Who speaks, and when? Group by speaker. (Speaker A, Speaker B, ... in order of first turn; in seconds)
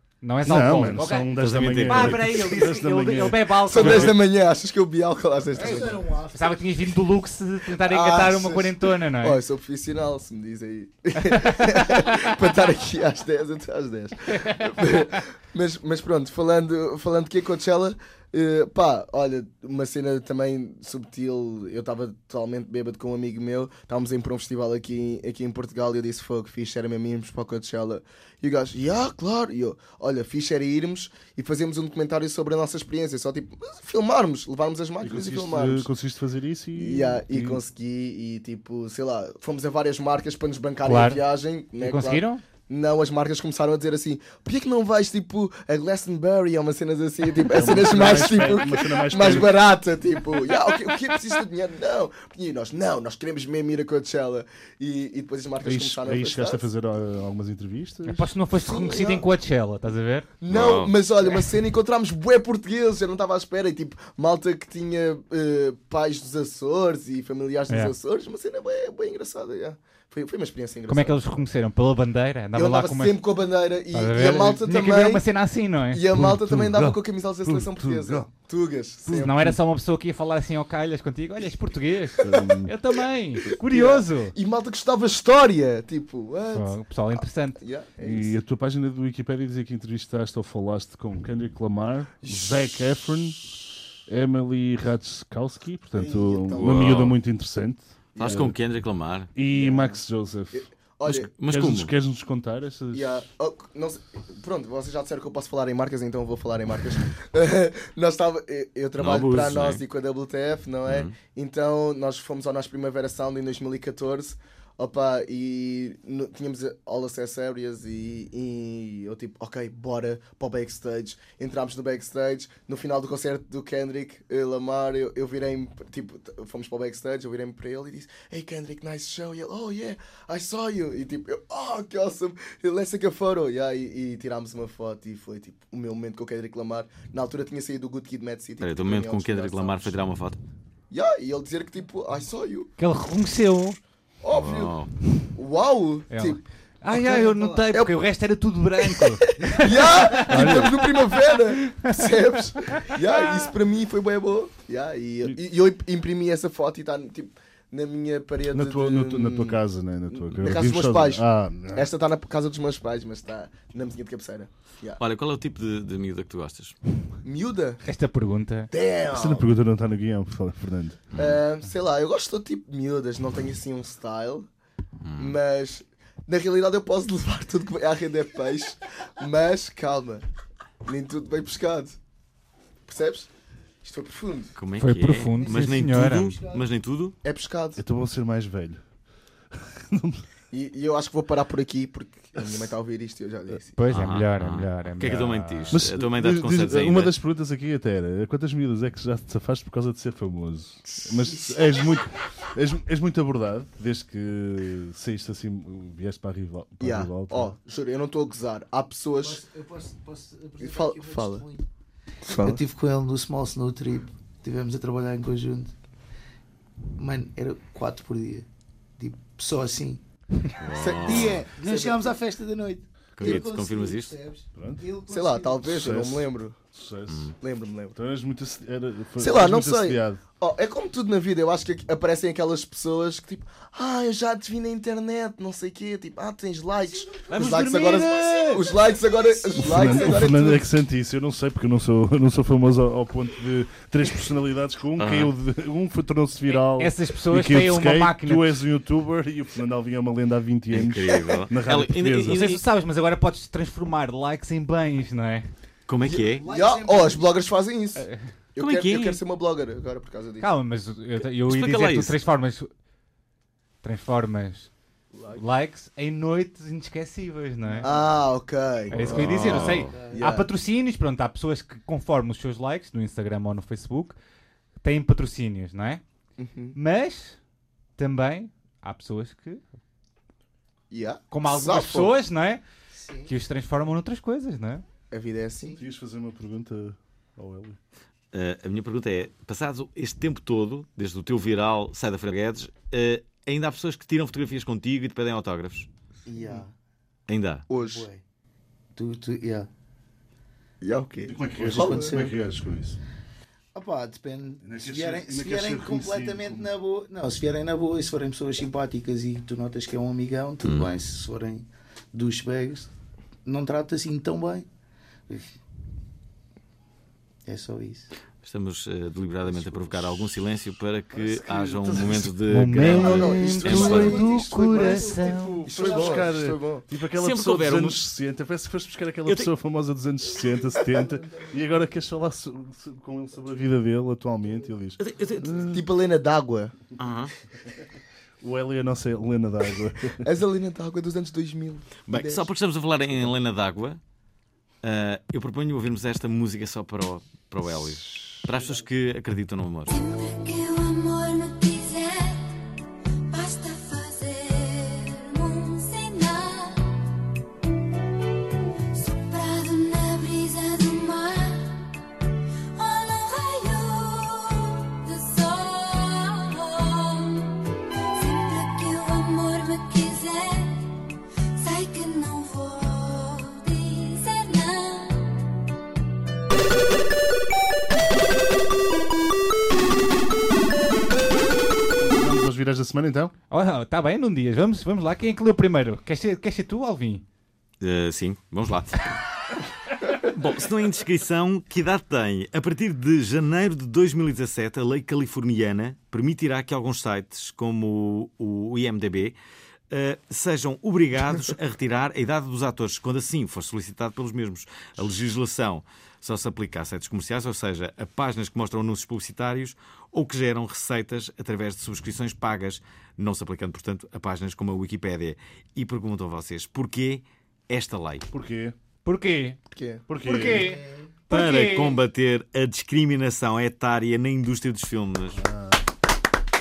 Speaker A: 0.2-4.1, 5.7-9.4, 11.3-11.6, 14.3-14.9, 40.9-41.2, 41.8-42.4, 58.1-60.3, 67.7-67.9, 70.9-73.2, 73.9-76.1, 79.1-84.3, 86.5-87.6, 142.8-143.8, 146.1-150.8, 151.7-152.2, 152.7-153.0, 167.8-168.7, 184.8-186.3, 193.8-195.8, 246.5-248.6, 252.3-255.5, 260.4-262.7, 263.8-264.7, 265.3-267.9, 268.9-274.2, 274.8-276.0, 276.8-277.4, 278.0-279.6, 281.3-282.6, 283.3-284.8, 322.5-325.6, 383.5-387.2, 419.1-419.6, 420.2-422.0
Speaker B: 0.4-3.5, 35.0-37.6, 47.5-49.6, 55.6-58.3, 76.1-78.3, 79.3-79.6, 82.2-82.7, 88.0-98.5, 99.3-100.7, 101.5-103.2, 150.3-150.8, 158.5-161.9, 169.1-171.1, 187.8-188.9, 189.5-190.2, 192.4-192.7, 195.7-207.6, 224.6-224.9, 225.7-227.3, 227.9-230.2, 239.6-252.4, 285.8-287.8, 301.3-303.0, 304.6-306.7, 321.5-322.3, 325.7-335.8, 338.4-340.2, 382.0-383.3, 418.3-418.8, 420.1-420.8, 425.4-425.9
Speaker C: 1.4-2.6, 3.8-4.1, 60.5-60.9, 96.6-97.2, 98.2-99.3, 101.1-101.9, 109.0-109.8, 110.9-111.1, 138.6-140.4, 144.3-144.9, 165.0-166.8, 171.1-171.4, 175.0-175.4, 184.6-187.2, 193.9-197.2, 220.6-221.4, 223.2-224.2, 227.1-227.3, 237.3-238.7, 245.0-245.3, 250.7-252.6, 255.9-256.5, 258.6-259.2, 261.4-262.2, 269.0-269.9, 288.3-295.9, 297.3-297.7, 310.6-310.9, 318.4-324.1, 327.1-328.0, 329.3-329.5, 335.0-335.7, 337.0-337.3, 342.1-344.0, 344.8-349.9, 387.8-389.1, 390.1-399.4, 399.9-418.3, 421.3-425.4
Speaker D: 3.6-6.1, 7.8-35.9, 36.8-56.7, 58.5-59.3, 60.4-71.2, 72.5-75.3, 75.9-79.3, 82.3-82.6, 83.6-88.4, 92.2-92.6, 95.9-97.0, 98.2-98.5, 99.5-100.0, 100.5-101.3, 102.9-140.0, 140.9-142.7, 144.2-148.0, 148.8-165.0, 167.2-167.8, 168.7-169.5, 171.2-174.5, 175.2-180.2, 180.9-182.0, 182.9-183.3, 183.8-184.6, 187.2-187.8, 190.5-193.8, 206.8-209.4, 210.6-211.5, 212.2-212.6, 220.8-222.2, 225.1-226.6, 227.4-228.0, 229.2-240.7, 256.0-260.5, 267.8-270.5, 276.4-276.8, 280.9-282.1, 285.1-285.8, 296.4-296.6, 297.7-298.1, 300.8-302.2, 322.8-326.9, 335.7-336.7, 340.2-342.5, 419.7-420.1
Speaker E: 5.5-6.6, 185.3-186.7, 201.2-202.1, 209.2-211.6, 212.3-215.7, 217.0-218.5, 219.0-220.0, 221.0-225.8, 239.3-239.9, 256.4-257.4, 269.6-270.2, 282.9-283.3, 296.3-296.7, 297.7-298.2, 298.9-299.7, 301.6-302.4, 303.8-312.9, 313.4-314.7, 315.3-315.6, 317.5-318.1, 321.1-322.0, 323.0-326.3, 331.0-331.5, 420.4-421.1
Speaker F: 349.9-352.5, 353.3-357.0, 358.9-361.8, 362.7-370.9, 371.5-375.4